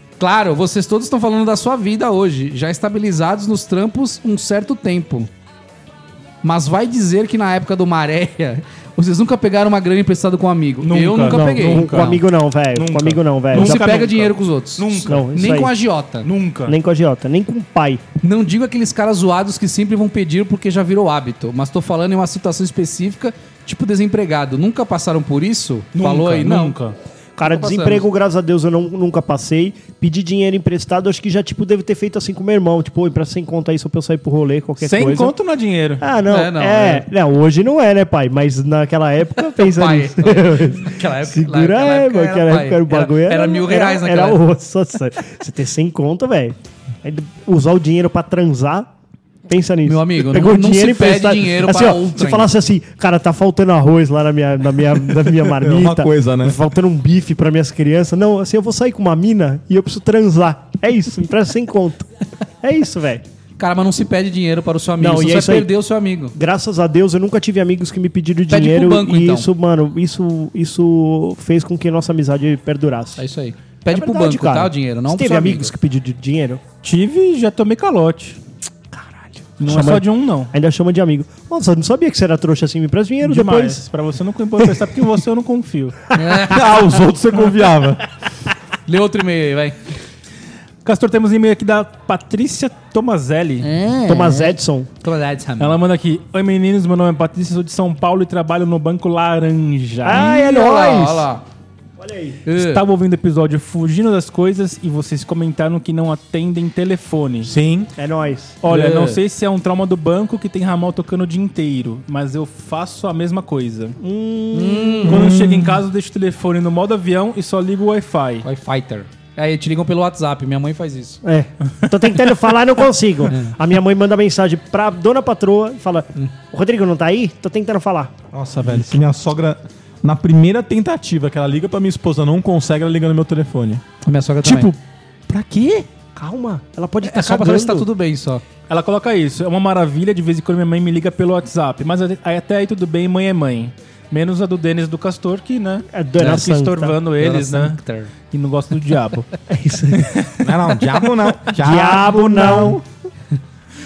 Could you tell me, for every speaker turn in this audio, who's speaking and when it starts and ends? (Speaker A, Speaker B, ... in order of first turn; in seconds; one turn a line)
Speaker A: 0.2-5.3
Speaker A: 6.4-12.2
Speaker B: 10.8-15.2
Speaker C: 11.3-13.8
Speaker A: 13.5-16.3
Speaker C: 15.1-15.7
Speaker B: 16.2-16.8
Speaker C: 16.7-18.0
Speaker A: 18.2-26.8
Speaker B: 25.9-26.9
Speaker C: 27.4-35.3
Speaker A: 27.4-28.0
Speaker B: 34.8-36.0
Speaker C: 36.0-48.9
Speaker A: 36.3-37.1
Speaker A: 39.5-44.4
Speaker C: 49.5-62.1
Speaker A: 49.8-52.5
Speaker D: 55.2-56.6
Speaker C: 62.6-63.2
Speaker A: 63.6-66.3
Speaker C: 65.0-65.7
Speaker C: 66.3-73.2
Speaker A: 68.5-69.5
Speaker A: 73.2-75.7
Speaker C: 73.9-76.6
Speaker B: 76.8-78.4
Speaker C: 78.9-83.8
Speaker B: 79.6-80.5
Speaker B: 83.2-86.0
Speaker A: 86.1-87.0
Speaker D: 86.5-88.0
Speaker A: 88.8-89.8
Speaker B: 90.8-93.7
Speaker A: 93.6-95.8
Speaker C: 94.1-94.9
Speaker B: 95.6-100.4
Speaker C: 100.0-101.3
Speaker A: 100.1-101.4
Speaker C: 102.0-102.4
Speaker A: 102.4-102.8
Speaker B: 102.5-107.5
Speaker D: 107.4-107.9
Speaker C: 108.0-108.6
Speaker B: 108.6-114.0
Speaker A: 108.7-109.2
Speaker C: 114.0-115.1
Speaker A: 114.5-115.1
Speaker B: 115.1-118.4
Speaker D: 115.1-115.8
Speaker A: 118.4-121.2
Speaker C: 121.2-128.1
Speaker D: 128.3-133.8
Speaker A: 134.0-134.7
Speaker D: 134.4-134.8
Speaker D: 135.3-135.8
Speaker C: 136.1-137.9
Speaker A: 137.0-138.4
Speaker B: 138.7-149.3
Speaker C: 145.9-146.9
Speaker A: 147.1-148.1
Speaker C: 149.5-150.3
Speaker D: 150.4-152.8
Speaker C: 151.5-152.8